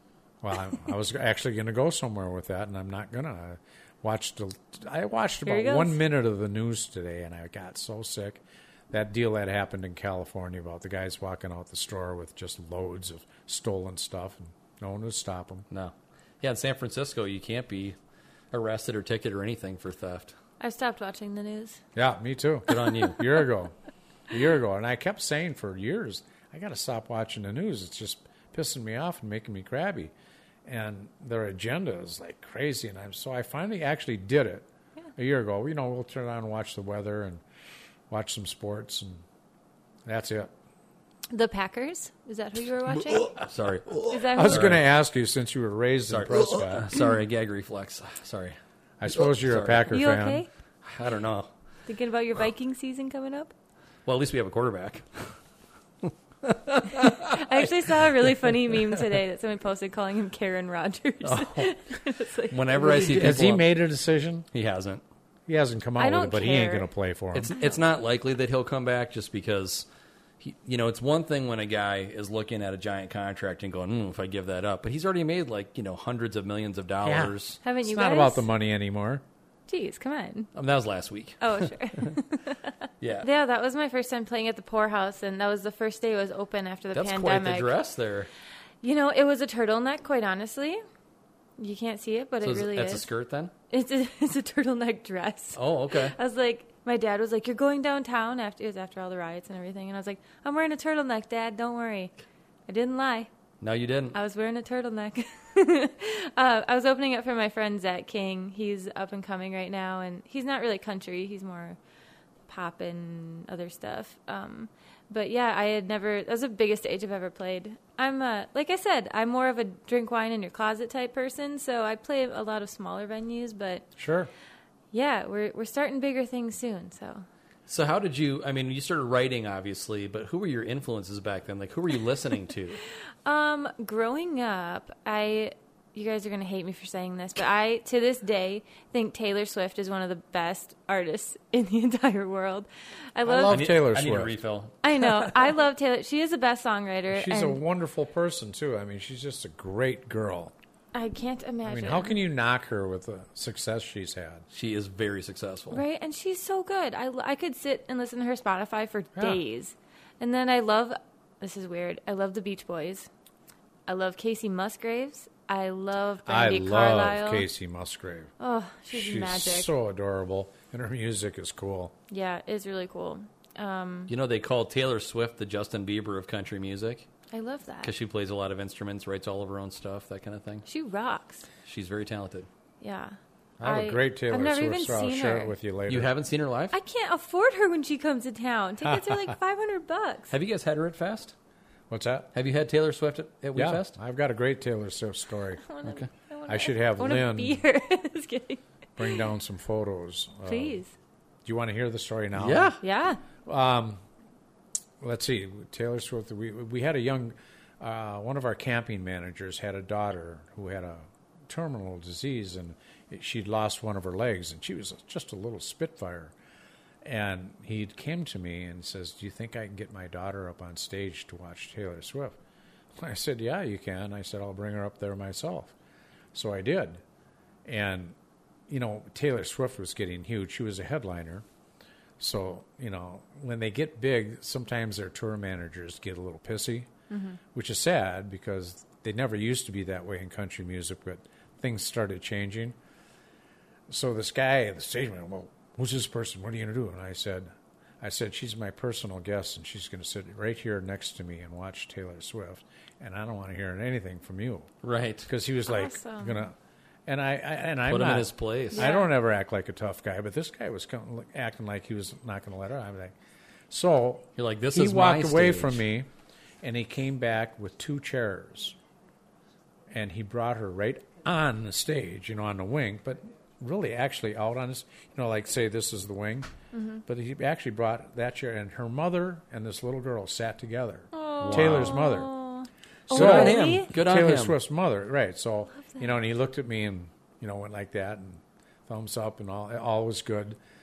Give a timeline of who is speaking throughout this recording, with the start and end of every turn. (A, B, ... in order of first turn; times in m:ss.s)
0:00.4-0:15.6 A
0:05.4-0:06.0 B
0:15.7-0:18.0 C
0:18.5-0:20.3 C
0:20.6-0:21.8 B
0:22.0-0:23.7 A
0:22.7-0:23.2 C
0:24.3-0:30.1 A
0:30.6-0:37.4 A
0:38.1-0:39.2 A
0:40.0-0:40.5 A
0:41.3-0:43.3 B
0:42.9-0:44.8 C
0:44.1-0:44.7 B
0:44.3-0:46.9 A
0:46.1-0:48.6 C
0:49.0-0:50.4 A
0:49.1-0:50.0 C
0:49.9-0:50.5 B
0:50.8-0:51.5 C
0:51.9-0:53.5 B
0:54.0-0:55.4 C
0:56.0-0:57.6 C
0:57.1-1:03.3 B
1:01.2-1:01.7 C
1:02.5-1:03.7 C
1:02.8-1:04.4 A
1:04.5-1:05.0 C
1:05.5-1:07.5 A
1:06.0-1:06.9 B
1:07.3-1:09.9 C
1:10.4-1:17.6 C
1:17.0-1:19.2 A
1:17.6-1:18.4 B
1:19.7-1:20.5 B
1:20.5-1:22.1 C
1:21.4-1:22.7 B
1:23.0-1:23.3 C
1:23.2-1:27.8 B
1:26.9-1:28.3 C
1:28.8-1:30.8 B
1:31.6-1:33.1 B
1:32.4-1:33.5 C
1:33.7-1:42.1 B
1:35.6-1:36.2 C
1:42.7-1:43.3 B
1:43.6-1:44.2 C
1:44.1-1:51.8 B
1:52.5-2:03.8 B
2:04.0-2:04.3 A
2:04.9-2:07.2 B
2:07.7-2:12.8 C
2:13.2-2:23.7 B
2:23.2-2:24.4 A
2:23.5-2:25.5 C
2:24.8-2:27.6 B
2:27.1-2:30.5 A
2:30.9-2:32.2 B
2:31.6-2:34.4 A
2:34.5-2:35.8 C
2:35.7-2:43.1 B
2:43.9-2:47.4 B
2:46.2-2:48.3 A
2:48.4-2:49.7 B
2:48.9-2:51.9 A
2:52.1-2:54.1 B
2:54.1-2:57.1 C
2:57.3-2:57.9 B
2:57.8-3:00.6 C
3:00.6-3:01.4 B
3:01.6-3:02.5 C
3:02.8-3:05.5 B
3:03.6-3:06.1 A
3:05.9-3:06.8 C
3:06.7-3:10.3 B
3:08.8-3:09.3 A
3:10.3-3:11.3 C
3:11.9-3:12.3 A
3:12.3-3:14.0 C
3:13.5-3:15.6 A
3:15.6-3:19.2 B
3:16.5-3:17.6 A
3:19.0-3:20.8 A
3:20.4-3:20.9 B
3:21.4-3:22.8 A
3:22.4-3:22.8 C
3:22.8-3:23.2 B
3:23.4-3:24.0 A
3:25.0-3:36.3 A
3:37.0-3:42.4 A
3:43.0-3:45.7 A
3:46.3-3:47.0 A
3:47.6-3:48.2 A
3:48.7-3:51.4 A
3:52.2-3:56.9 A
3:57.1-3:57.4 B
3:57.5-4:02.8 A
4:03.9-4:14.7 A
4:14.8-4:15.3 C
4:15.2-4:16.5 A
4:15.6-4:16.5 B
4:17.1-4:23.1 A
4:17.8-4:18.9 C
4:18.7-4:19.1 B
4:23.7-4:26.1 A
4:24.4-4:25.8 C
4:26.6-4:28.8 A
4:29.9-4:36.5 A
4:36.7-4:37.0 B
4:37.1-4:42.3 A
4:41.1-4:43.9 B
4:41.4-4:42.0 C
4:43.1-4:44.6 C
4:43.1-4:50.6 A